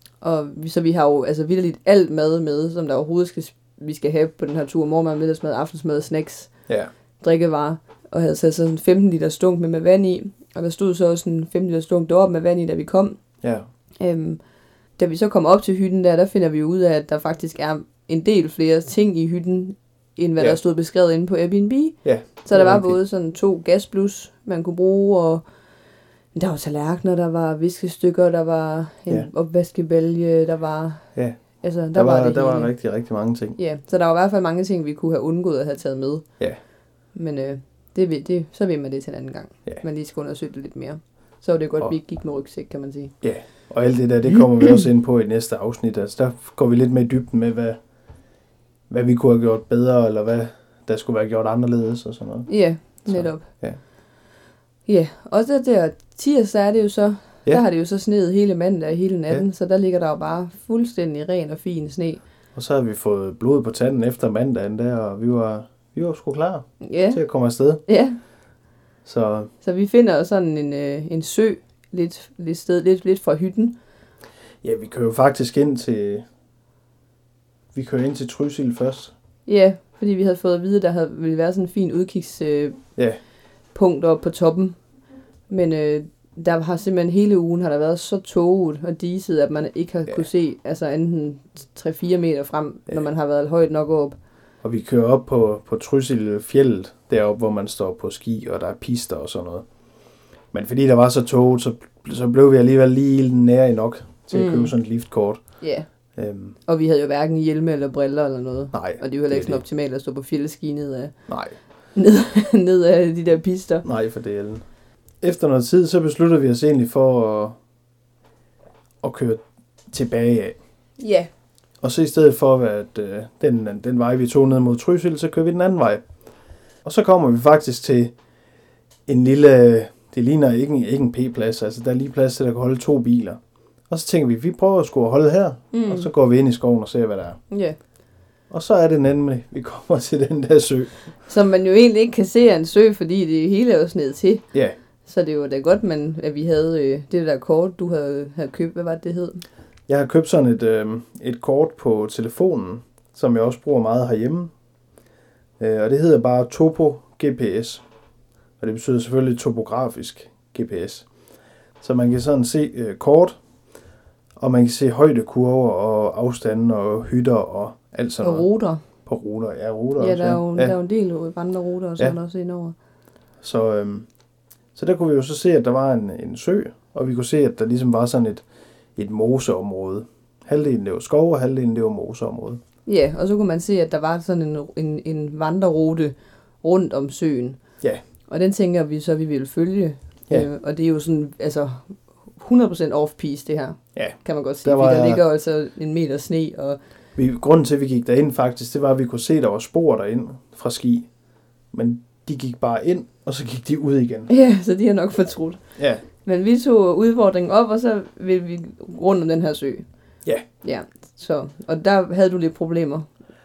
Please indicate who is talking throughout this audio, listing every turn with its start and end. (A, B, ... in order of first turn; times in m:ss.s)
0:00.2-0:06.5 A
0:07.2-0:13.2 A
0:14.0-0:14.4 A
0:15.0-0:25.4 A
0:22.0-0:23.0 B
0:26.3-0:31.1 A
0:31.6-0:32.7 A
0:31.9-0:33.6 B
0:33.6-0:36.2 A
0:37.1-0:43.1 A
0:43.2-0:47.8 B
0:48.9-0:52.5 B
0:52.5-0:53.5 A
0:53.0-0:53.8 B
0:54.8-1:02.2 A
1:02.5-1:07.8 B
1:06.8-1:07.2 A
1:07.8-1:08.2 A
1:09.0-1:09.5 B
1:09.6-1:13.8 A
1:14.6-1:16.2 B
1:17.7-1:19.1 B
1:19.4-1:22.8 A
1:23.7-1:24.8 A
1:25.5-1:34.2 A
1:34.6-1:39.6 B
1:40.5-1:45.4 B
1:44.3-1:44.7 A
1:45.6-1:45.9 A
1:46.2-1:46.6 B
1:46.7-1:51.1 A
1:48.7-1:49.6 B
1:51.3-1:51.6 B
1:51.9-1:53.8 A
1:53.8-1:54.6 B
1:55.2-1:57.6 B
1:59.0-1:59.4 B
1:59.9-2:00.6 B
2:01.0-2:01.3 A
2:01.8-2:06.0 B
2:06.8-2:08.1 B
2:09.1-2:17.4 B
2:15.7-2:16.1 A
2:17.5-2:17.8 A
2:18.5-2:21.0 B
2:21.3-2:24.4 A
2:25.0-2:29.4 A
2:29.9-2:34.5 B
2:35.6-2:37.8 B
2:38.6-2:41.0 B
2:41.8-2:43.4 B
2:44.4-2:48.5 B
2:48.2-2:48.8 A
2:49.0-2:50.7 B
2:50.0-2:52.7 A
2:53.4-2:54.1 B
2:54.7-2:58.4 B
2:59.0-3:02.6 B
3:02.8-3:07.6 A
3:08.3-3:16.8 A
3:14.0-3:15.2 B
3:17.2-3:21.1 B
3:21.7-3:24.3 B
3:24.3-3:25.6 A
3:25.8-3:26.0 B
3:26.1-3:29.8 A
3:30.6-3:33.1 A